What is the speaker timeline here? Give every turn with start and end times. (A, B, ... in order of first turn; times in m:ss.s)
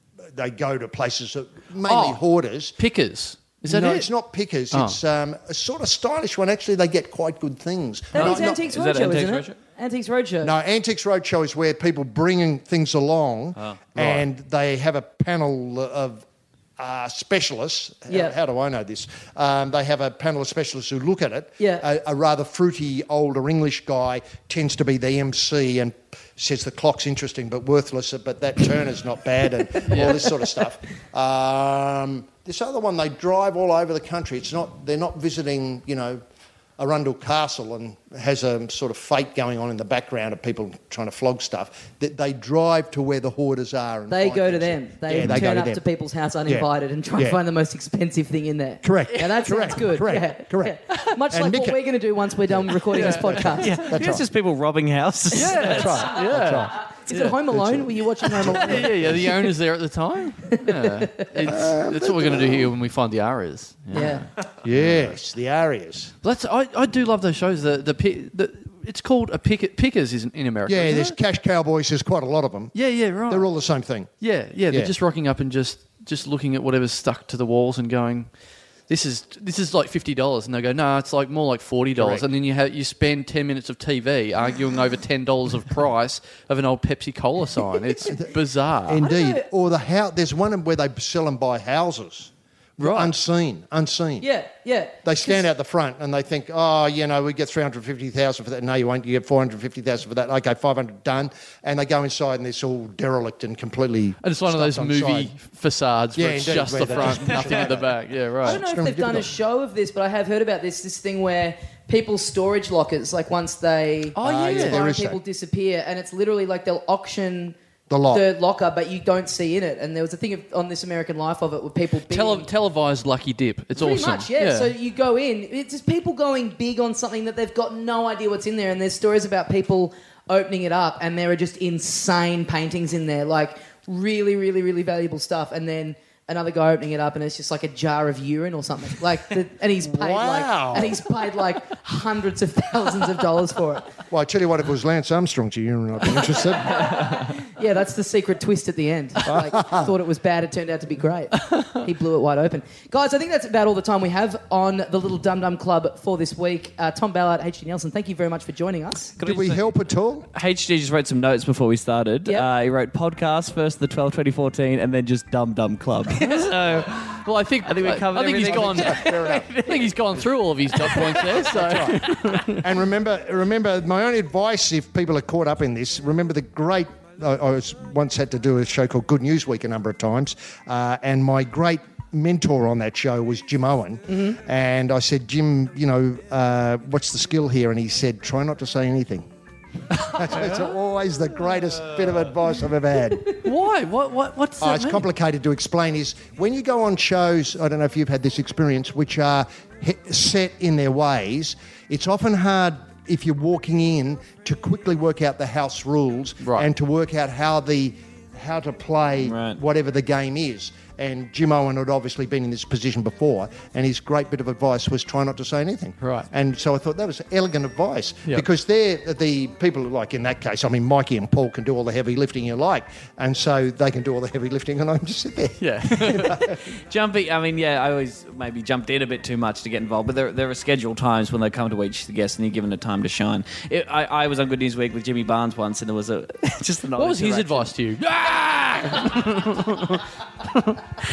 0:00.3-0:02.8 A
0:01.8-0:02.2 B
0:02.8-0:04.1 B
0:03.6-0:08.8 A
0:04.7-0:05.0 B
0:08.1-0:10.5 C
0:08.2-0:09.6 D
0:10.4-0:16.2 A
0:13.6-0:14.0 D
0:16.8-0:36.2 A
0:18.1-0:18.4 C
0:29.9-0:30.2 B
0:36.8-0:45.8 A
0:44.1-0:53.8 C
0:46.5-0:47.4 A
0:48.8-0:51.8 A
0:52.5-0:54.2 A
0:52.9-0:53.6 B
0:53.6-0:56.1 D
0:55.3-0:57.4 B
0:55.5-0:56.8 A
0:57.0-0:59.2 C
0:57.5-0:59.3 A
0:58.3-1:04.2 B
1:00.5-1:01.2 C
1:01.4-1:02.7 A
1:03.9-1:04.3 C
1:04.6-1:06.1 A
1:06.2-1:11.2 B
1:10.7-1:12.7 A
1:12.7-1:13.5 B
1:13.3-1:14.1 A
1:14.2-1:18.3 B
1:14.7-1:14.9 A
1:18.9-1:29.1 B
1:22.0-1:22.3 A
1:28.0-1:28.3 A
1:28.8-1:34.3 A
1:29.0-1:29.5 C
1:32.8-1:33.1 B
1:34.2-1:35.4 C
1:35.0-1:45.3 A
1:44.2-1:48.6 B
1:46.2-1:49.3 A
1:47.0-1:47.7 D
1:48.4-1:57.6 C
1:54.2-1:54.9 B
1:54.2-1:55.2 A
1:57.9-1:58.2 A
1:58.1-2:02.5 C
2:02.1-2:04.7 B
2:03.8-2:23.9 C
2:19.8-2:21.0 A
2:24.1-2:27.1 A
2:26.6-2:39.2 C
2:29.2-2:29.9 A
2:39.2-2:39.7 D
2:39.2-2:40.3 A
2:40.3-2:49.8 D
2:46.2-2:46.6 B
2:47.1-2:52.7 B
2:48.4-2:49.6 A
2:50.8-2:51.5 D
2:51.2-3:09.3 A
3:10.0-3:13.4 A
3:11.9-3:12.2 D
3:13.4-3:15.1 B
3:14.6-3:46.6 A
3:29.2-3:29.6 D
3:36.0-3:36.3 B
3:45.6-3:46.5 B
3:46.7-3:57.7 D
3:57.0-4:00.8 B